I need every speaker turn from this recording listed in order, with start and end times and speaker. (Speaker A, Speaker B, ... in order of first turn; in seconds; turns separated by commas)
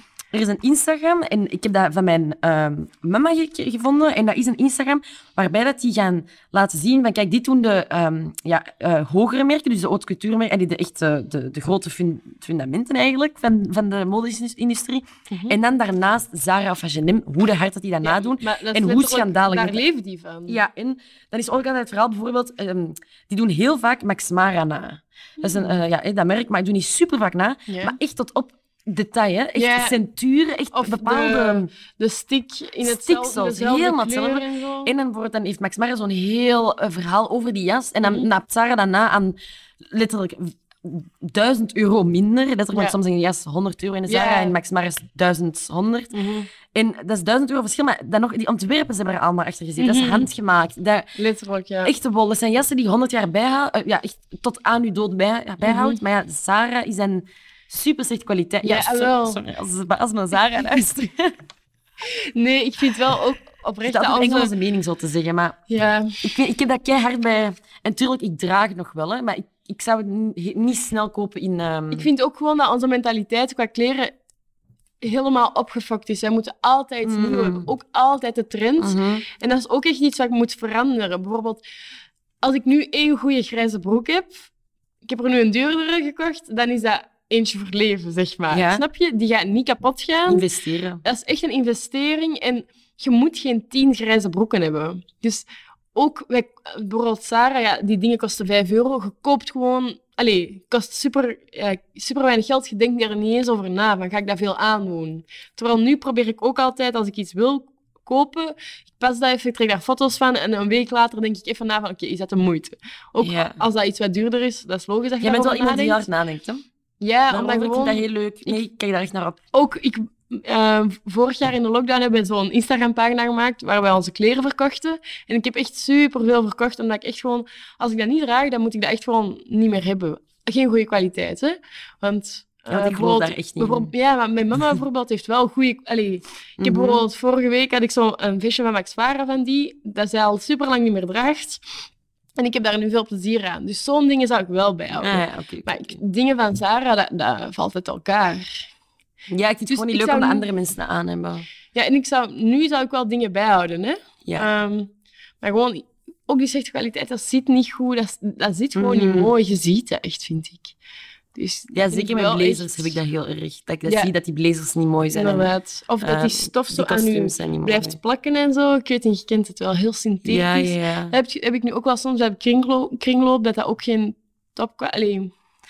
Speaker A: 0.3-19.8, Speaker B: 15.3-15.6, Speaker B: 18.0-20.6, Speaker A: 20.5-31.7, Speaker B: 25.4-25.8, Speaker B: 27.7-28.0, Speaker B: 29.6-30.0, Speaker B: 30.7-34.9, Speaker A: 32.8-46.1, Speaker B: 38.0-38.3, Speaker B: 44.1-44.6, Speaker B: 46.1-46.5, Speaker A: 46.7-51.1, Speaker B: 49.8-50.3, Speaker B: 51.2-51.9, Speaker A: 51.8-61.3, Speaker B: 55.6-56.0, Speaker B: 58.6-59.4, Speaker B: 62.0-64.5, Speaker A: 63.8-65.6, Speaker B: 65.7-66.2, Speaker A: 66.2-72.1, Speaker B: 71.9-74.1, Speaker B: 75.0-81.6, Speaker A: 77.0-77.7, Speaker A: 78.8-79.2, Speaker B: 82.4-84.5, Speaker B: 85.0-90.5, Speaker A: 88.5-88.8, Speaker A: 90.3-91.0, Speaker B: 91.0-116.0, Speaker A: 113.2-113.6, Speaker A: 115.2-116.6, Speaker B: 117.0-118.6, Speaker A: 117.3-119.4, Speaker B: 119.5-141.6, Speaker A: 132.7-133.9, Speaker A: 136.6-137.0, Speaker B: 142.4-148.7, Speaker A: 145.0-146.0, Speaker A: 149.3-151.4, Speaker B: 149.7-150.5, Speaker B: 151.7-160.7, Speaker A: 158.8-159.3, Speaker B: 161.3-163.0, Speaker A: 161.7-165.5, Speaker B: 165.1-175.3, Speaker A: 166.0-168.0, Speaker A: 170.2-171.1